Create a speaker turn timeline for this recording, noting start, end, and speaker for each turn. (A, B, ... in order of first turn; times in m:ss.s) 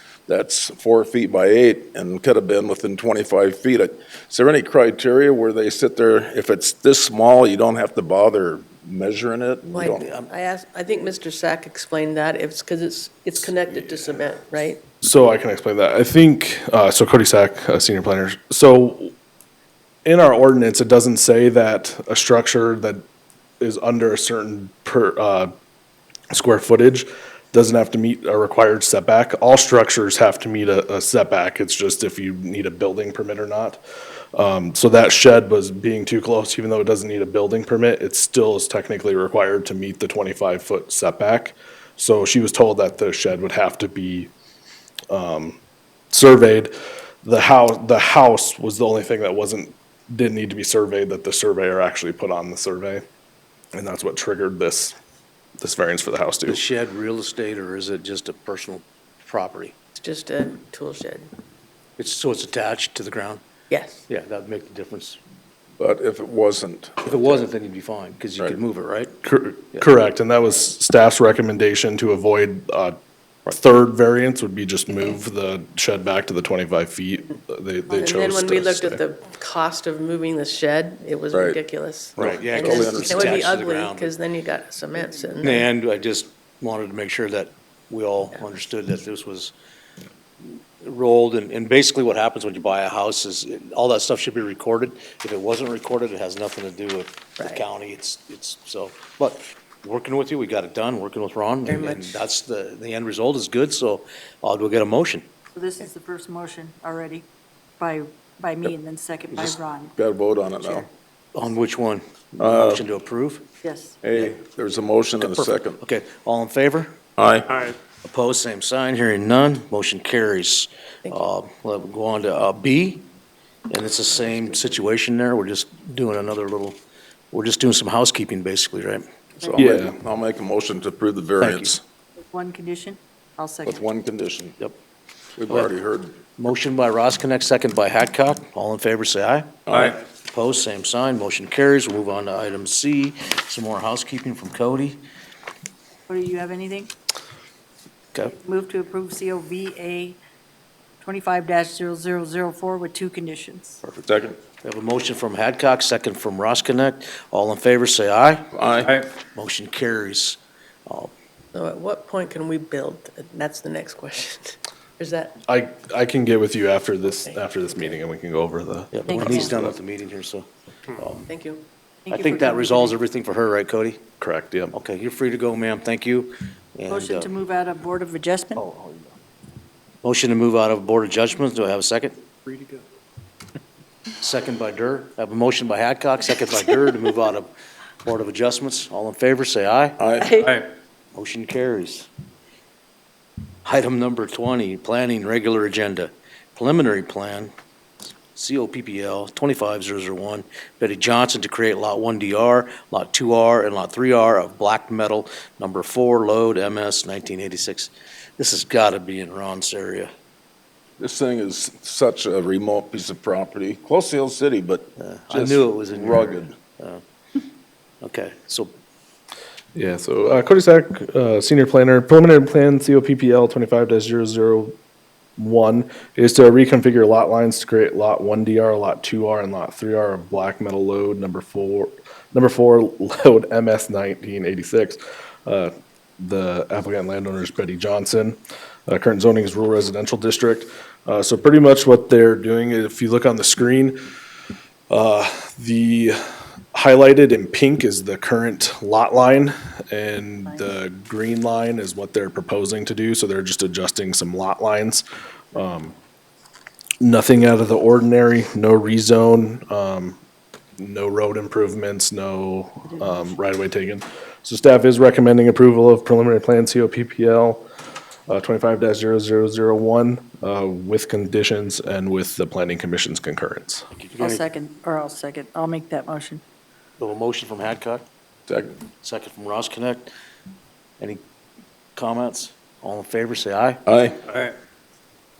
0:00.3-0:10.1 A
0:09.7-0:14.8 B
0:09.8-0:10.3 C
0:13.7-0:14.2 A
0:15.0-0:19.1 D
0:20.0-0:23.0 D
0:23.6-0:25.5 D
0:26.3-0:33.8 D
0:34.3-0:44.3 D
0:45.1-0:45.6 D
0:46.1-0:46.7 D
0:47.2-0:53.0 D
0:53.7-0:54.9 D
0:55.6-0:56.6 D
0:56.5-0:59.7 C
1:00.0-1:01.3 B
1:02.0-1:03.4 C
1:03.7-1:04.0 B
1:04.1-1:05.2 C
1:05.8-1:07.4 A
1:07.0-1:09.9 C
1:09.2-1:19.0 D
1:17.9-1:25.7 B
1:21.3-1:21.6 A
1:22.2-1:23.5 A
1:22.2-1:24.1 C
1:25.4-1:29.5 C
1:30.4-1:45.3 C
1:41.6-1:42.2 B
1:45.5-1:47.2 E
1:47.8-1:49.9 E
1:49.4-1:50.9 A
1:51.3-1:53.4 C
1:52.4-1:52.8 A
1:53.6-1:54.0 E
1:54.0-1:55.8 A
1:55.2-1:56.9 C
1:57.2-1:57.5 A
1:58.0-2:03.1 C
2:01.0-2:01.3 B
2:03.7-2:06.8 C
2:07.3-2:09.0 C
2:09.5-2:11.8 A
2:09.6-2:09.9 D
2:11.4-2:11.8 C
2:12.3-2:13.8 E
2:13.6-2:14.6 A
2:15.4-2:16.2 A
2:16.4-2:25.0 C
2:19.6-2:20.0 A
2:26.1-2:26.9 E
2:28.2-2:30.2 E
2:31.0-2:33.8 E
2:33.9-2:34.4 A
2:34.6-2:38.5 C
2:38.5-2:39.0 A
2:39.2-2:41.1 C
2:41.5-2:45.4 B
2:45.5-2:49.7 D
2:47.0-2:48.0 B
2:48.9-2:51.3 C
2:49.1-2:49.6 E
2:51.2-2:51.6 B
2:52.1-2:53.0 E
2:52.1-2:54.0 C
2:54.2-2:54.7 D
2:54.7-2:57.3 C
2:56.9-2:58.6 E
2:58.6-2:59.0 C
3:00.0-3:02.2 C
3:04.2-3:07.5 C
3:08.0-3:10.0 C
3:10.0-3:10.4 A
3:10.2-3:10.5 B
3:11.1-3:12.1 C
3:13.6-3:17.5 C
3:18.3-3:30.1 C
3:31.0-3:36.5 A
3:35.0-3:37.0 C
3:38.0-3:38.7 C
3:39.7-3:44.8 D
3:45.4-4:04.0 D
4:04.9-4:06.2 D
4:06.7-4:15.9 D
4:17.0-4:20.2 D
4:20.8-4:27.7 D
4:28.3-4:33.8 D
4:33.9-4:34.4 C
4:34.2-4:36.4 E
4:37.0-4:38.0 C
4:38.5-4:38.8 A
4:39.0-4:40.1 C
4:42.0-4:43.8 C
4:43.8-4:44.2 A